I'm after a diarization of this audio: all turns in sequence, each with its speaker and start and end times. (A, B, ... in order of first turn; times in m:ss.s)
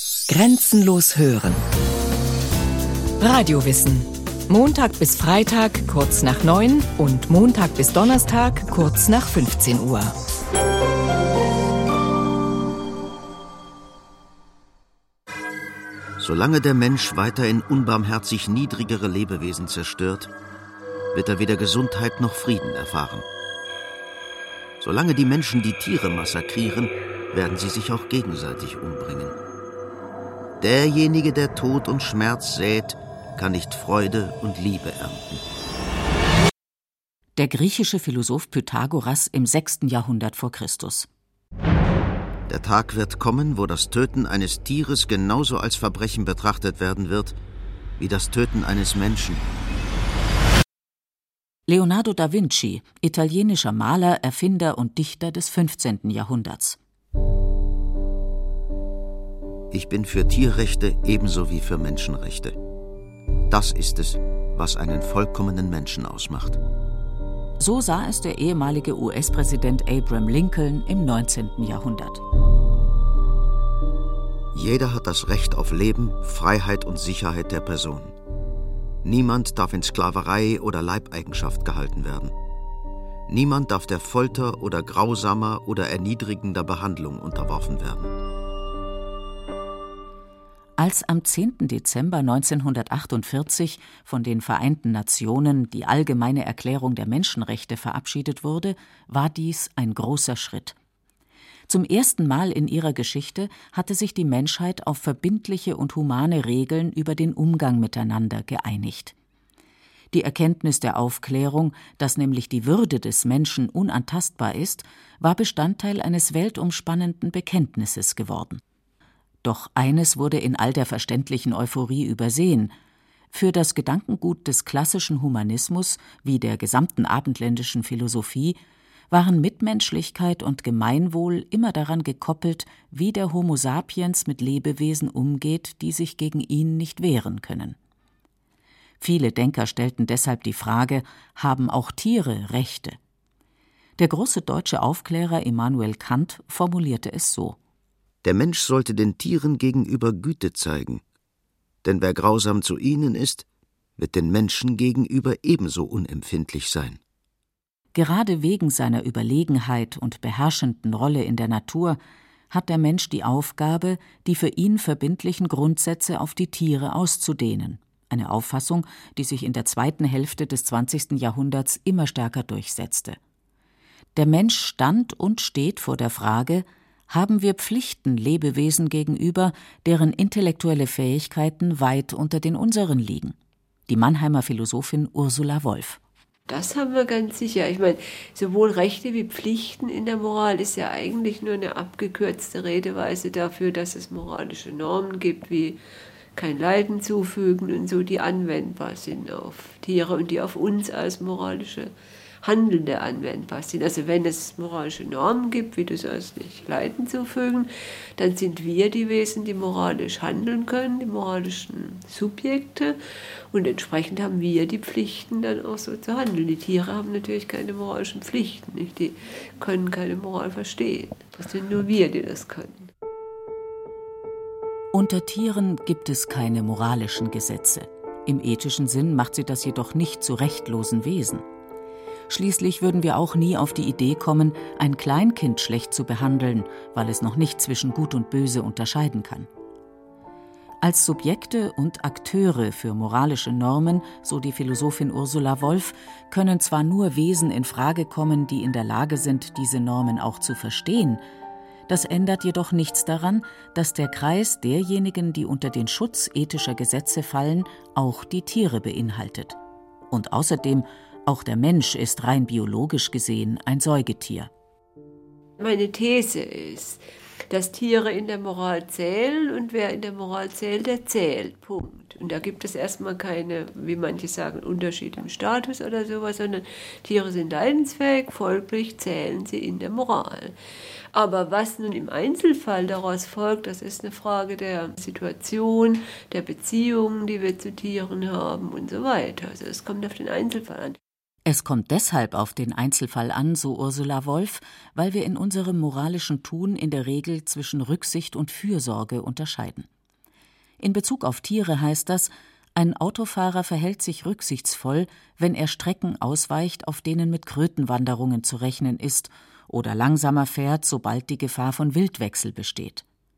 0:00.3-0:01.6 A
0:03.2-0:10.2 A
0:16.2-0:20.3 B
0:21.1-0:23.2 B
0:24.8-0:29.4 B
0:30.6-0:35.4 B
0:37.4-0:41.1 C
0:42.5-0:47.4 B
0:48.0-0:49.4 B
0:51.7-0:56.8 C
0:59.7-1:02.6 B
1:03.5-1:06.6 B
1:07.6-1:12.2 C
1:14.5-1:18.1 B
1:19.0-1:22.3 B
1:23.3-1:28.1 B
1:30.8-1:40.8 C
1:41.7-1:49.1 C
1:50.1-1:58.6 C
1:59.4-2:02.7 C
2:03.3-2:08.6 C
2:09.1-2:17.8 C
2:19.0-2:23.0 C
2:24.0-2:27.6 C
2:28.2-2:31.0 B
2:31.8-2:33.4 B
2:34.0-2:37.0 B
2:37.9-2:42.0 C
2:42.5-2:53.2 C
2:54.1-3:03.3 C
3:03.9-3:06.0 C
3:06.5-3:15.8 D
3:16.4-3:21.9 D
3:22.4-3:33.0 D
3:33.5-3:42.9 D
3:44.9-3:51.4 C
3:52.3-3:59.5 C
4:00.8-4:11.2 C
4:11.9-4:19.6 C
4:20.1-4:24.5 C
4:25.6-4:40.5 D
4:41.1-4:51.0 D
4:51.4-4:59.9 C
5:00.8-5:13.0 C